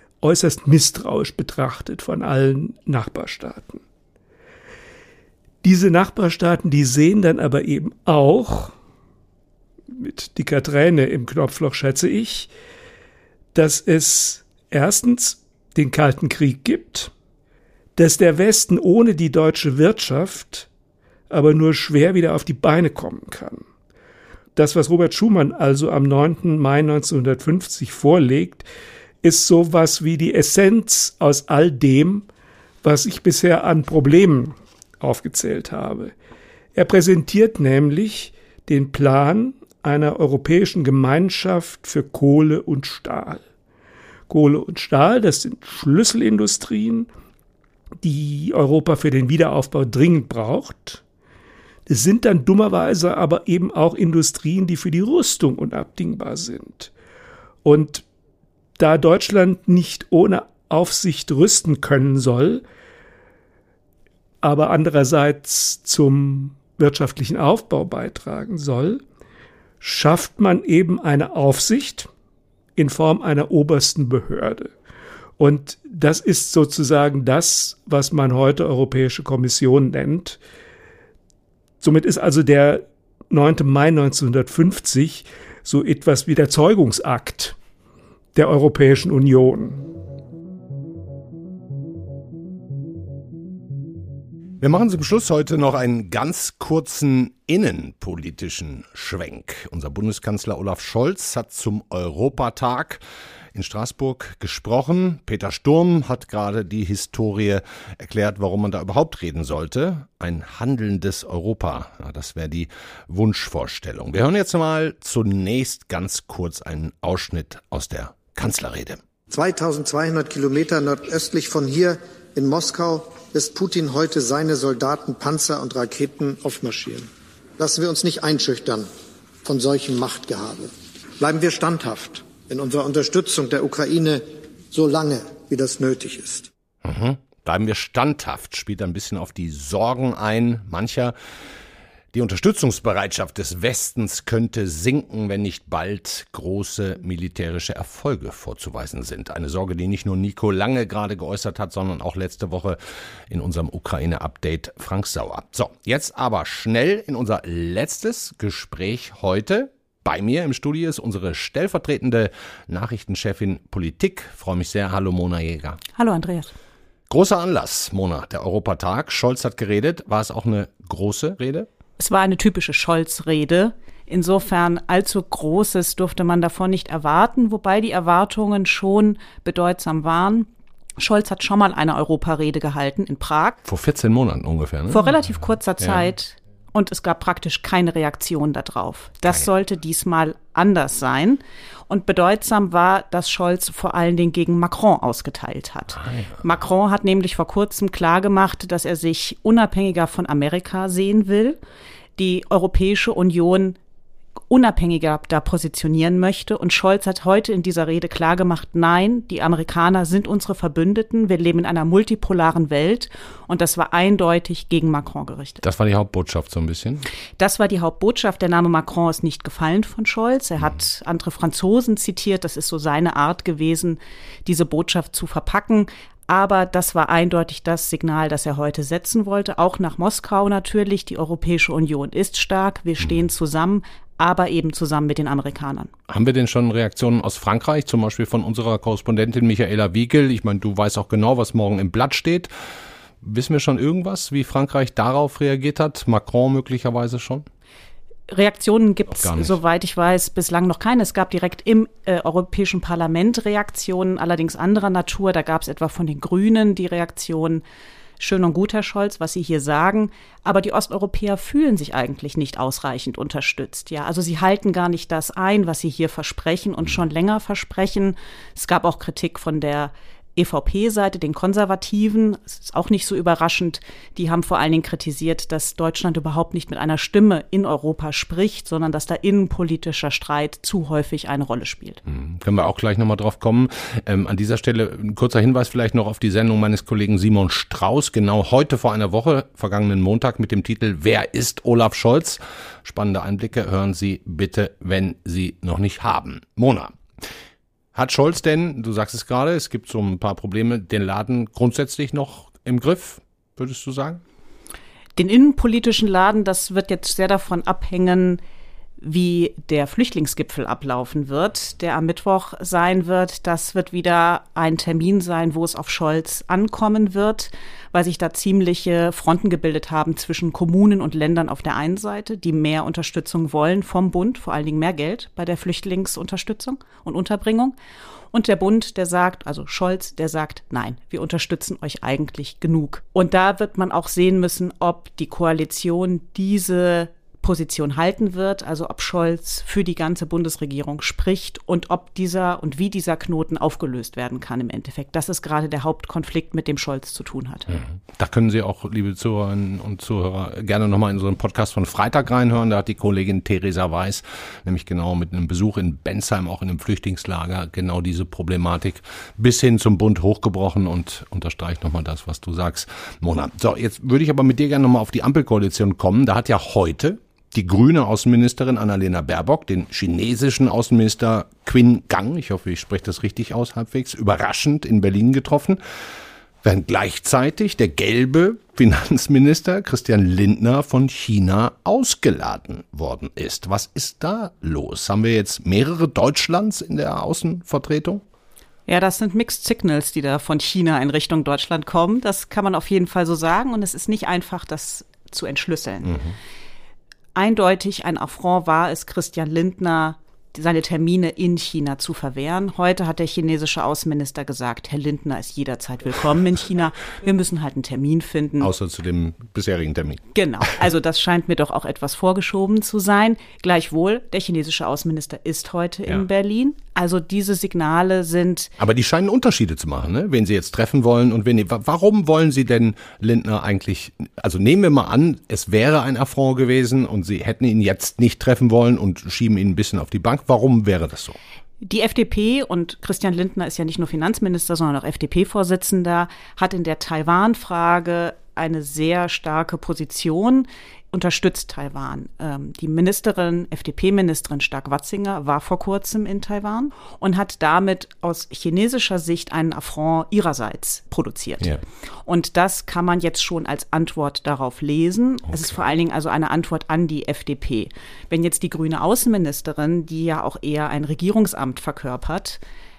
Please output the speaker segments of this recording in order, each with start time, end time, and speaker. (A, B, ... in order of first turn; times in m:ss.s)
0:00.2-0:03.8 A
0:05.6-0:08.7 A
0:09.9-0:12.5 A
0:13.6-0:17.1 A
0:18.0-0:20.7 A
0:21.3-0:23.6 A
0:24.6-0:28.6 A
0:29.2-0:32.3 A
0:32.8-0:36.1 A
0:36.7-0:43.4 A
0:44.3-0:47.1 A
0:48.0-0:51.0 A
0:51.9-0:56.9 A
0:57.6-0:58.0 A
0:58.8-1:02.6 A
1:04.4-1:09.0 A
1:09.8-1:12.1 A
1:12.8-1:14.7 A
1:15.4-1:20.4 A
1:21.8-1:27.6 A
1:28.4-1:29.8 A
1:34.6-1:43.0 B
1:43.5-1:59.0 B
1:59.3-2:08.9 C
2:09.4-2:16.5 C
2:16.8-2:21.1 B
2:22.1-2:32.8 B
2:33.3-2:45.8 B
2:46.0-2:46.5 D
2:47.1-2:51.7 B
2:52.0-3:03.6 D
3:03.6-3:06.1 B
3:04.9-3:21.6 D
3:16.0-3:16.4 B
3:22.2-3:23.8 D
3:24.5-3:35.6 D
3:35.6-3:37.1 B
3:37.4-3:55.9 D
3:53.0-3:53.2 B
3:56.1-4:02.5 B
4:03.2-4:07.5 B
4:08.3-4:17.6 D
4:09.1-4:09.6 B
4:18.2-4:42.0 D
4:42.1-4:57.0 B
4:57.9-5:04.2 B
5:05.2-5:08.4 D
5:09.0-5:27.8 D
5:28.3-5:47.7 D
5:47.7-6:15.8 B
6:16.6-6:28.2 B
6:28.9-6:36.2 D
6:36.0-6:36.4 B
6:37.4-6:48.7 D
6:48.6-6:50.2 B
6:50.4-6:58.7 D
6:58.8-7:11.4 B
7:11.8-7:31.7 D
7:32.2-7:42.6 D
7:35.5-7:35.8 B